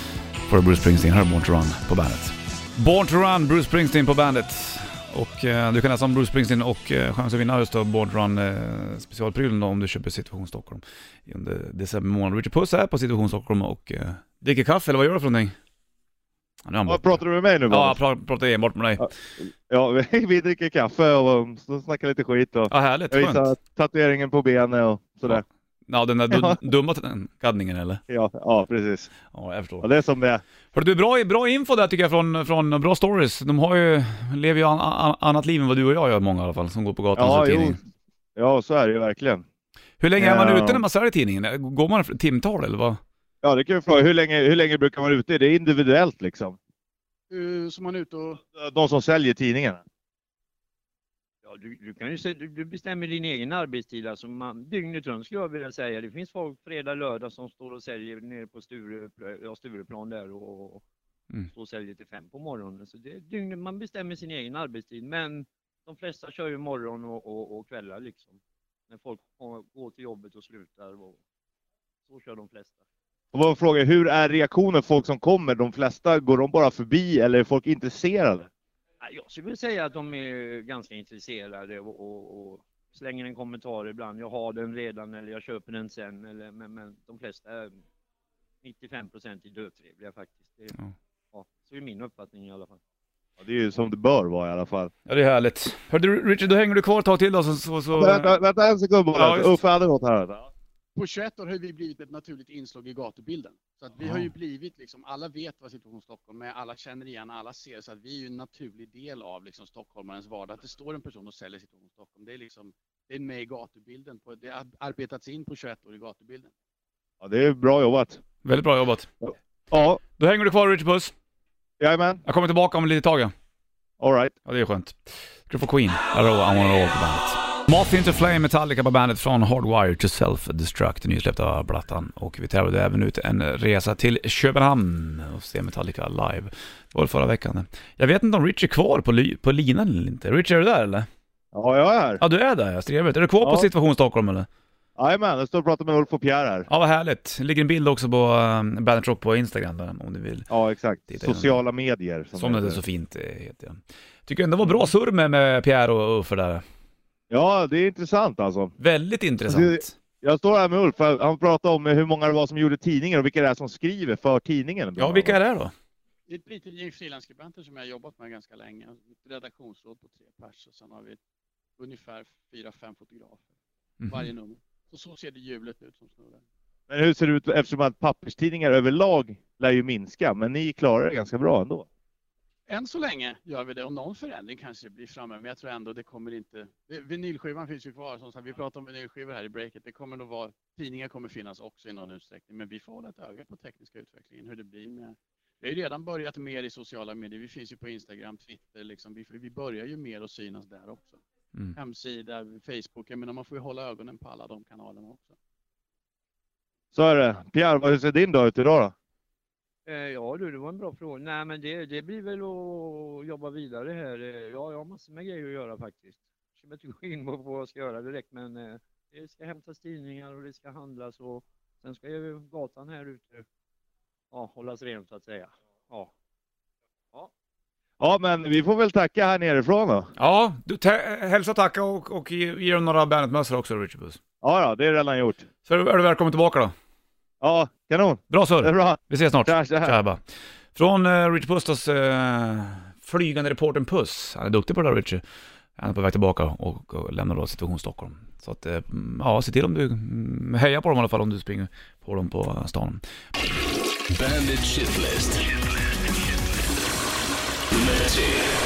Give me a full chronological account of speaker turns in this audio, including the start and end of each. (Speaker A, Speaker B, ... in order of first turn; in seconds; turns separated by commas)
Speaker A: 0.5-15.5, Speaker A: 16.6-19.1, Speaker B: 16.9-18.0, Speaker B: 19.0-25.4, Speaker A: 22.7-23.5, Speaker A: 25.3-28.0, Speaker B: 26.3-26.6, Speaker B: 28.1-29.1, Speaker A: 29.3-29.9, Speaker B: 29.8-30.4, Speaker A: 30.7-37.8, Speaker B: 37.1-37.8, Speaker B: 38.4-39.4, Speaker A: 40.0-43.0, Speaker B: 40.2-40.8, Speaker B: 43.4-46.6, Speaker C: 47.3-48.4, Speaker B: 48.5-49.8, Speaker D: 51.4-60.8, Speaker D: 61.5-71.2, Speaker D: 72.1-72.8, Speaker B: 73.3-78.5, Speaker D: 79.0-87.8, Speaker D: 88.6-90.8, Speaker D: 91.3-92.8, Speaker B: 93.4-94.9, Speaker A: 95.1-98.4, Speaker B: 97.9-100.5, Speaker A: 99.1-99.6, Speaker C: 100.9-116.5, Speaker A: 104.0-104.3, Speaker B: 117.2-118.2, Speaker A: 118.4-119.1, Speaker B: 119.2-120.0, Speaker A: 120.2-121.1, Speaker B: 121.8-122.2, Speaker A: 122.2-123.3, Speaker B: 124.0-124.3, Speaker A: 124.5-141.1, Speaker B: 141.5-142.2, Speaker A: 142.2-144.5, Speaker B: 143.4-143.7, Speaker B: 145.0-146.7, Speaker A: 146.7-150.5, Speaker B: 150.5-152.8, Speaker A: 151.1-151.6, Speaker A: 152.3-156.6, Speaker B: 154.6-154.9, Speaker B: 157.3-158.7, Speaker A: 158.8-159.9, Speaker B: 159.4-165.4, Speaker A: 165.0-165.7, Speaker C: 166.3-171.2, Speaker C: 171.8-173.5, Speaker A: 174.0-174.3, Speaker C: 174.1-176.4, Speaker B: 176.9-181.8, Speaker C: 182.7-201.2, Speaker C: 201.7-205.3, Speaker B: 206.9-208.9, Speaker D: 209.8-223.4, Speaker D: 224.3-226.1, Speaker B: 228.0-230.1, Speaker A: 230.2-234.2, Speaker B: 234.4-235.5, Speaker A: 235.7-236.7, Speaker B: 237.4-239.9, Speaker A: 238.3-240.2, Speaker A: 240.7-245.2, Speaker A: 245.8-253.0, Speaker E: 254.1-255.5, Speaker E: 257.7-258.6